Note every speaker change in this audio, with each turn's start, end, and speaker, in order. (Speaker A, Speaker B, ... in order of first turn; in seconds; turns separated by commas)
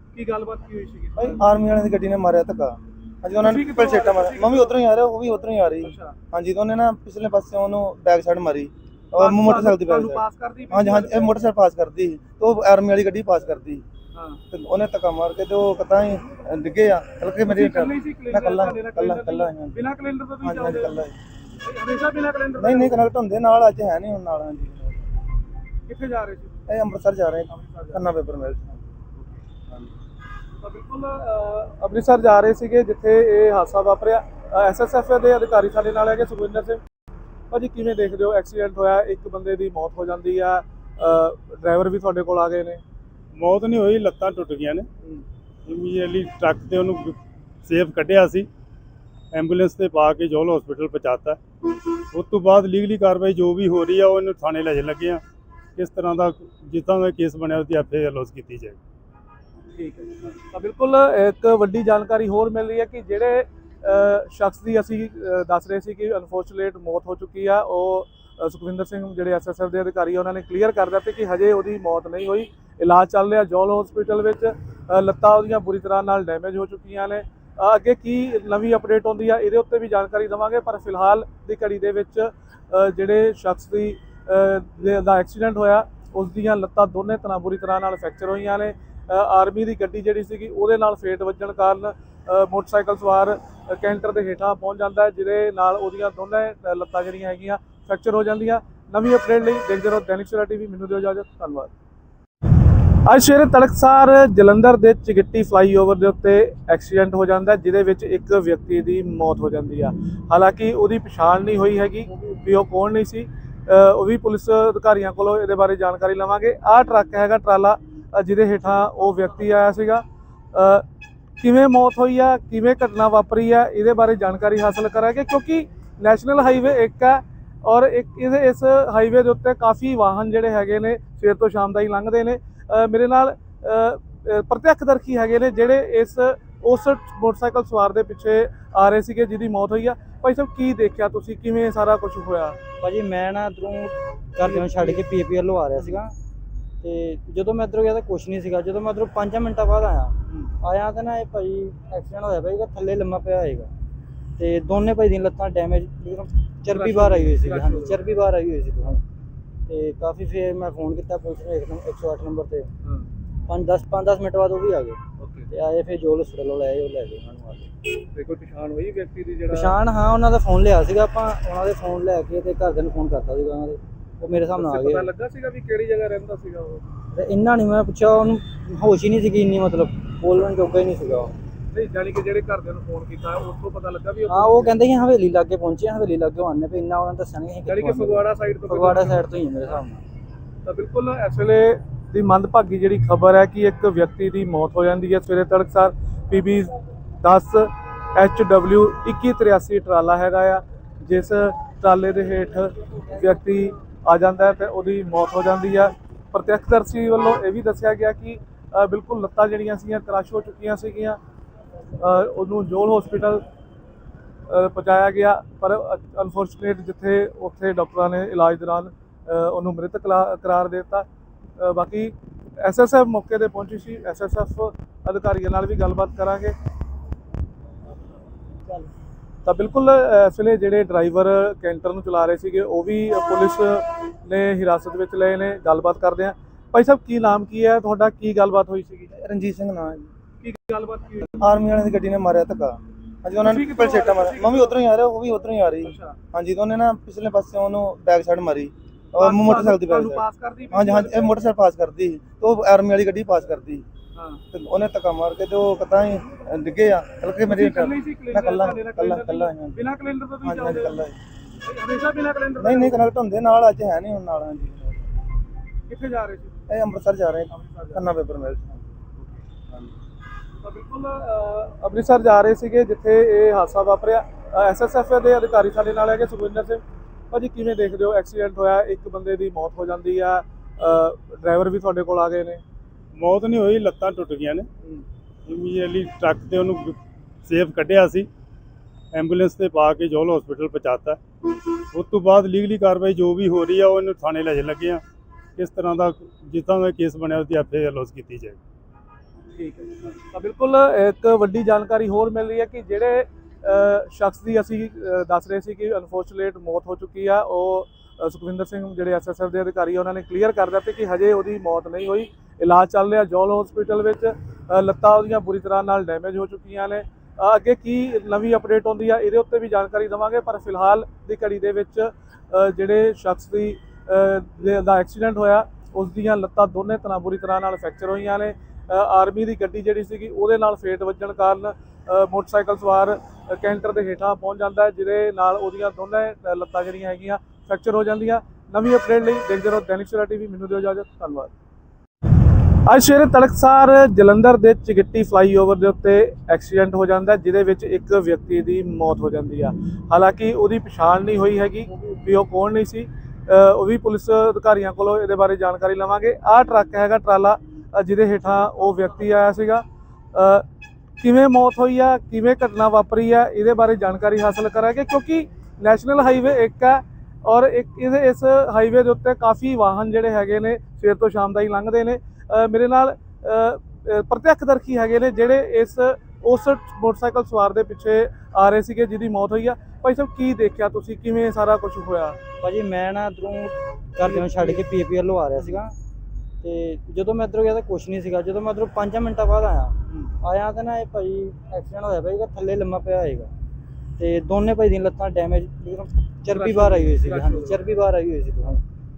Speaker A: 0.1-1.4, Speaker B: 1.2-13.8, Speaker A: 3.4-4.8, Speaker A: 5.8-6.1, Speaker A: 9.1-11.3, Speaker A: 14.1-14.4, Speaker B: 14.5-19.8, Speaker A: 17.4-21.0, Speaker B: 20.4-21.1, Speaker A: 21.6-23.0, Speaker B: 22.6-25.0, Speaker A: 25.9-26.6, Speaker B: 26.7-28.8, Speaker A: 27.5-28.0, Speaker A: 30.6-36.8, Speaker A: 37.5-42.8, Speaker C: 43.4-44.9, Speaker C: 45.6-48.5, Speaker C: 49.3-51.4, Speaker C: 52.1-55.2, Speaker C: 55.8-58.8, Speaker A: 59.7-101.7, Speaker A: 103.0-120.8, Speaker A: 121.4-142.6, Speaker D: 142.8-146.1, Speaker A: 144.4-145.0, Speaker D: 146.8-153.7, Speaker A: 150.3-150.5, Speaker D: 154.4-159.0, Speaker A: 156.7-158.2, Speaker D: 159.7-162.7, Speaker A: 162.8-163.1, Speaker D: 163.5-167.7, Speaker A: 165.2-165.5, Speaker A: 168.1-169.8, Speaker D: 169.5-175.1, Speaker A: 174.5-176.8, Speaker D: 177.1-181.3, Speaker A: 181.7-184.7, Speaker D: 184.3-190.0, Speaker A: 187.7-189.3, Speaker A: 190.7-211.2, Speaker A: 212.0-213.4, Speaker A: 214.5-221.1, Speaker A: 221.6-226.5, Speaker A: 229.4-239.1, Speaker B: 239.1-240.1, Speaker A: 240.4-241.4, Speaker B: 241.4-253.8, Speaker A: 243.4-244.8, Speaker A: 245.8-246.2, Speaker A: 249.1-251.4, Speaker A: 254.1-254.4, Speaker B: 254.5-259.8, Speaker A: 257.5-261.0, Speaker B: 260.4-261.1, Speaker A: 261.6-263.0, Speaker B: 262.6-265.0, Speaker A: 265.9-266.6, Speaker B: 266.7-268.9, Speaker A: 267.5-268.1, Speaker A: 270.6-282.6, Speaker C: 283.1-284.7, Speaker C: 285.5-288.3, Speaker C: 289.1-291.2, Speaker C: 291.9-295.0, Speaker C: 295.6-298.6, Speaker A: 299.5-341.5, Speaker A: 342.9-360.6, Speaker A: 361.2-382.4, Speaker D: 382.6-385.9, Speaker A: 384.2-384.8, Speaker D: 386.6-393.5, Speaker A: 390.1-390.3, Speaker D: 394.2-398.8, Speaker A: 396.5-397.9